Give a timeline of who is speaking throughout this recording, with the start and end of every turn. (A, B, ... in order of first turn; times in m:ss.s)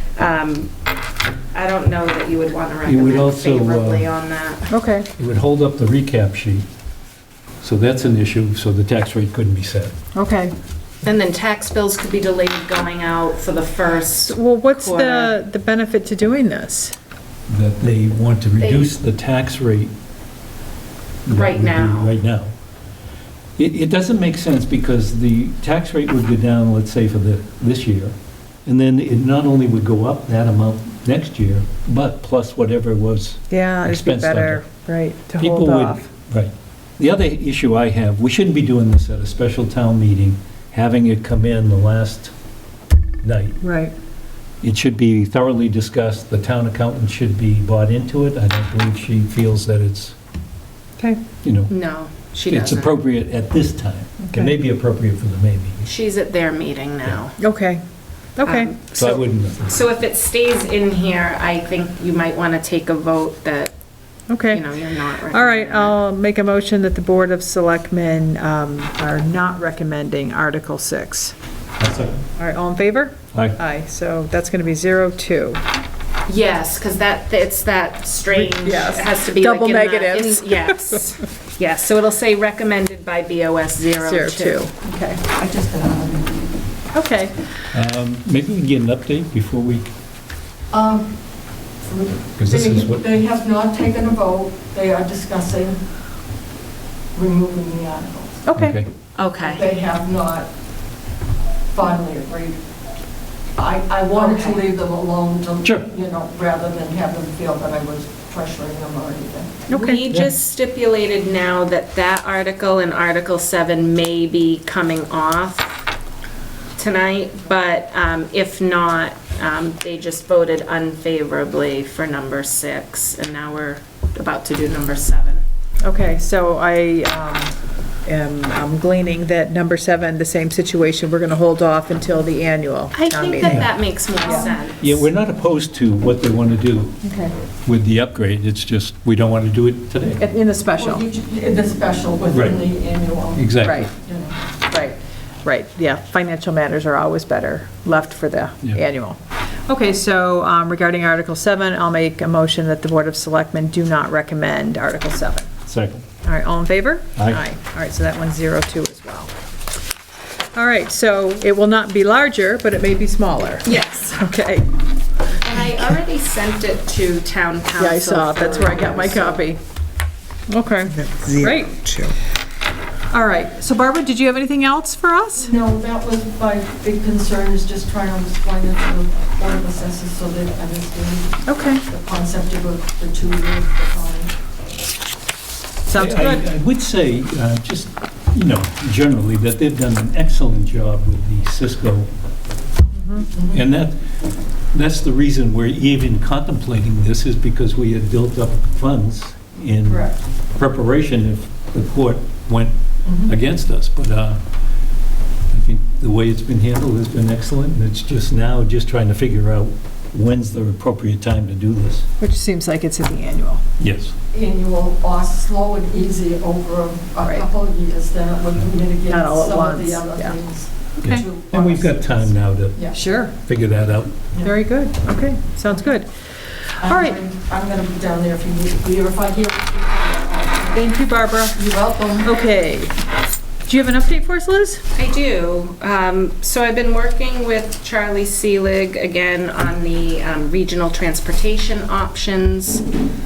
0:00.2-0:00.7 A
0:01.5-0:04.7 A
0:02.8-0:04.1 B
0:04.7-0:05.1 C
0:05.2-0:06.6 B
0:07.6-0:09.9 B
0:10.1-0:10.5 C
0:11.0-0:15.3 A
0:14.2-0:16.9 C
0:17.5-0:19.9 B
0:18.6-0:18.9 A
0:21.2-0:22.5 B
0:21.3-0:22.1 A
0:23.6-0:28.1 B
0:28.6-0:34.6 B
0:33.5-0:36.1 C
0:35.4-0:42.3 B
0:43.2-0:43.6 B
0:43.6-0:43.9 C
0:44.6-0:50.2 B
0:51.4-0:51.7 B
0:51.7-0:53.0 A
0:52.4-0:55.8 B
0:54.2-0:54.5 C
0:55.8-0:57.4 A
0:57.4-0:57.8 C
0:58.4-0:58.7 C
0:58.4-1:03.7 A
0:58.9-0:59.8 B
1:04.3-1:04.6 C
1:04.5-1:06.0 A
1:05.3-1:11.3 C
1:11.8-1:12.2 B
1:12.4-1:15.6 C
1:16.3-1:24.7 A
1:18.3-1:21.0 C
1:24.0-1:25.2 C
1:25.2-1:26.5 D
1:26.9-1:27.4 C
1:27.7-1:29.9 B
1:30.7-1:31.2 D
1:31.8-1:35.8 D
1:32.4-1:33.0 B
1:37.1-1:38.4 D
1:38.4-1:38.8 C
1:38.6-1:38.9 B
1:39.2-1:39.7 A
1:39.4-1:40.5 D
1:41.7-1:42.6 D
1:43.6-1:49.6 D
1:44.1-1:44.6 A
1:49.7-1:50.0 C
1:49.7-1:55.8 A
1:56.8-2:05.4 A
2:05.8-2:07.5 C
2:08.0-2:13.7 C
2:12.9-2:15.1 A
2:13.4-2:13.7 B
2:14.8-2:16.9 B
2:17.0-2:17.3 C
2:17.6-2:20.2 B
2:20.2-2:21.0 C
2:20.7-2:24.4 D
2:22.3-2:22.6 B
2:23.3-2:23.9 B
2:23.6-2:23.9 C
2:24.7-2:35.5 C
2:35.7-2:36.0 B
2:36.2-2:39.3 C
2:37.2-2:37.4 B
2:40.5-2:44.6 C
2:43.6-2:44.2 A
2:45.3-2:49.4 A
2:47.8-2:49.6 C
2:50.5-2:52.0 C
2:53.1-2:55.5 C
2:55.4-3:04.3 D
3:01.4-3:01.8 C
3:05.9-3:06.4 C
3:06.0-3:12.1 B
3:12.9-3:13.3 C
3:13.3-3:13.6 D
3:13.5-3:14.0 B
3:14.7-3:22.7 B
3:19.9-3:20.2 D
3:23.0-3:23.3 D
3:23.2-3:24.4 B
3:25.5-3:32.0 B
3:32.2-3:33.6 C
3:33.8-3:34.1 B
3:34.3-3:43.0 D
3:39.1-3:40.4 C
3:41.0-3:44.2 B
3:42.9-3:43.3 C
3:44.4-3:46.1 C
3:46.7-3:47.2 C
3:46.8-3:50.9 D
3:50.7-3:51.6 C
3:51.5-3:52.5 D
3:52.2-3:52.9 C
3:53.7-3:54.8 C
3:54.9-4:02.8 A